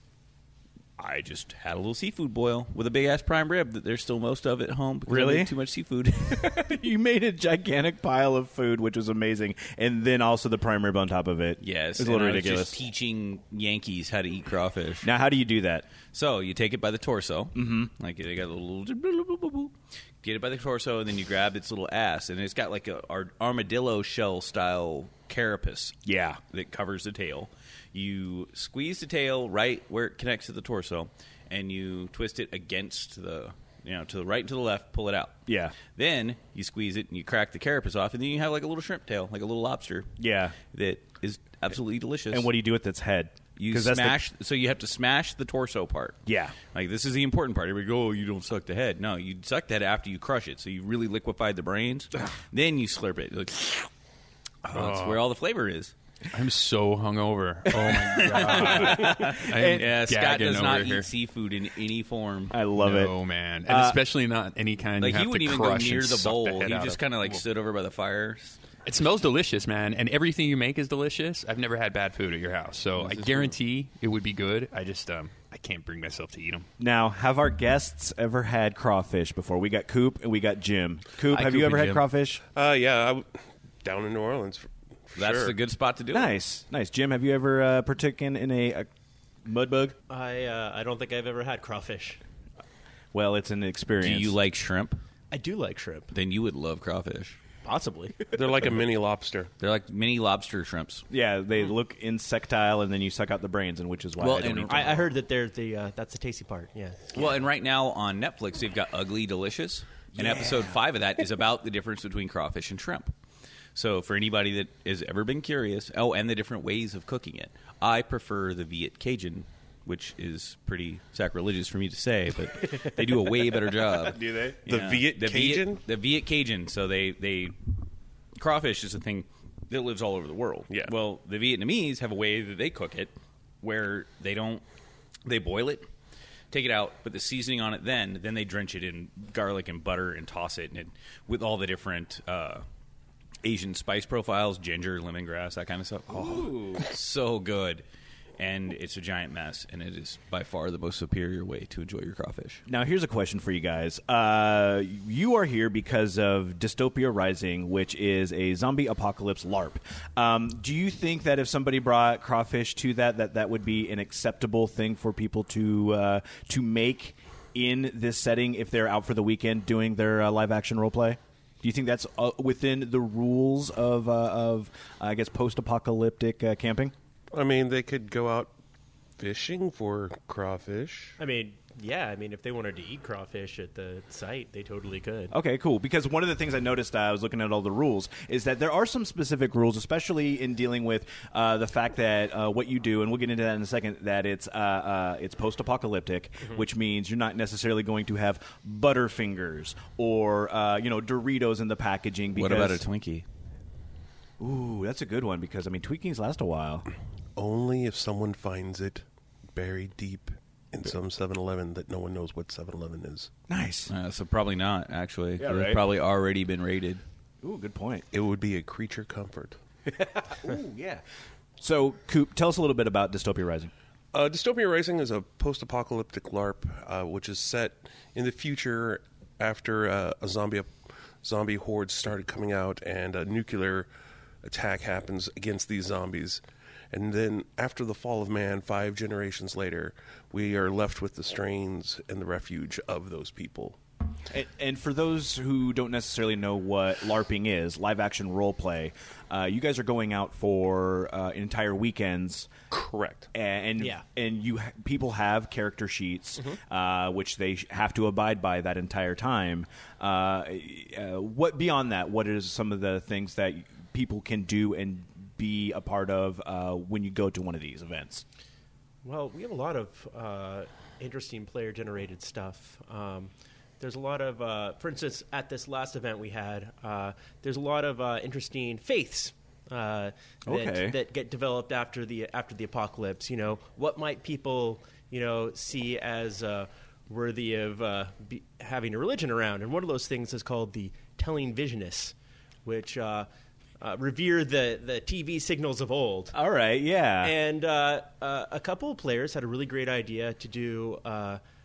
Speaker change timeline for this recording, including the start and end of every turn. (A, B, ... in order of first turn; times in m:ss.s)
0:01.0-0:06.7 A
0:05.1-0:05.5 B
0:06.3-0:12.8 B
0:11.6-0:15.1 A
0:15.0-0:15.9 B
0:16.1-0:26.0 A
0:17.5-0:17.9 B
0:26.0-0:26.4 B
0:26.5-0:40.1 A
0:35.5-0:35.7 B
0:40.2-0:40.5 B
0:40.7-0:42.5 A
0:42.3-0:44.2 B
0:43.6-0:53.9 A
0:46.2-0:46.6 B
0:54.7-0:55.9 A
0:54.7-0:55.2 C
0:56.3-1:01.1 C
0:58.0-1:02.5 A
0:58.5-0:59.8 B
1:02.5-1:03.1 B
1:02.8-1:07.4 C
1:03.6-1:04.0 B
1:05.0-1:08.6 A
1:08.8-1:16.6 C
1:13.0-1:13.5 B
1:16.8-1:22.4 B
1:21.4-1:22.0 C
1:21.4-1:21.8 A
1:22.5-1:23.3 D
1:23.8-1:25.5 D
1:25.2-1:26.3 A
1:26.1-1:28.9 B
1:29.4-1:29.9 B
1:30.1-1:32.2 E
1:33.1-1:34.4 B
1:34.0-1:35.0 A
1:35.3-1:36.1 E
1:36.1-1:37.4 A
1:37.6-1:38.1 E
1:38.3-1:39.5 D
1:39.6-1:41.0 A
1:41.1-1:45.0 B
1:44.2-1:45.0 A
1:44.7-1:47.1 E
1:47.1-1:53.1 A
1:50.1-1:50.8 B
1:53.7-2:07.5 A
2:02.7-2:04.6 B
2:04.6-2:05.8 D
2:08.3-2:14.6 A
2:15.2-2:15.9 A
2:16.5-2:22.6 A
2:23.4-2:27.8 A
2:26.1-2:26.9 B
2:28.4-2:32.6 A
2:32.7-2:56.9 B
2:57.3-2:58.5 D
2:59.2-3:01.2 D
3:01.2-3:05.3 E
3:05.3-3:22.8 B
3:22.3-3:23.2 A
3:24.4-3:26.9 B
3:27.4-3:33.3 D
3:33.5-3:33.9 B
3:33.9-3:37.0 A
3:35.4-3:35.8 B
3:37.4-3:38.1 B
3:38.1-3:39.6 D
3:39.8-3:41.0 B
3:41.6-3:43.7 B
3:44.1-3:53.9 D
3:54.4-4:03.8 D
4:04.3-4:12.5 B
4:12.7-4:13.3 D
4:13.3-4:28.2 B
4:13.8-4:14.0 E
4:29.0-4:53.3 E
4:40.4-4:41.0 B
4:53.8-4:56.3 E
4:56.3-4:57.3 B
4:57.2-5:01.4 E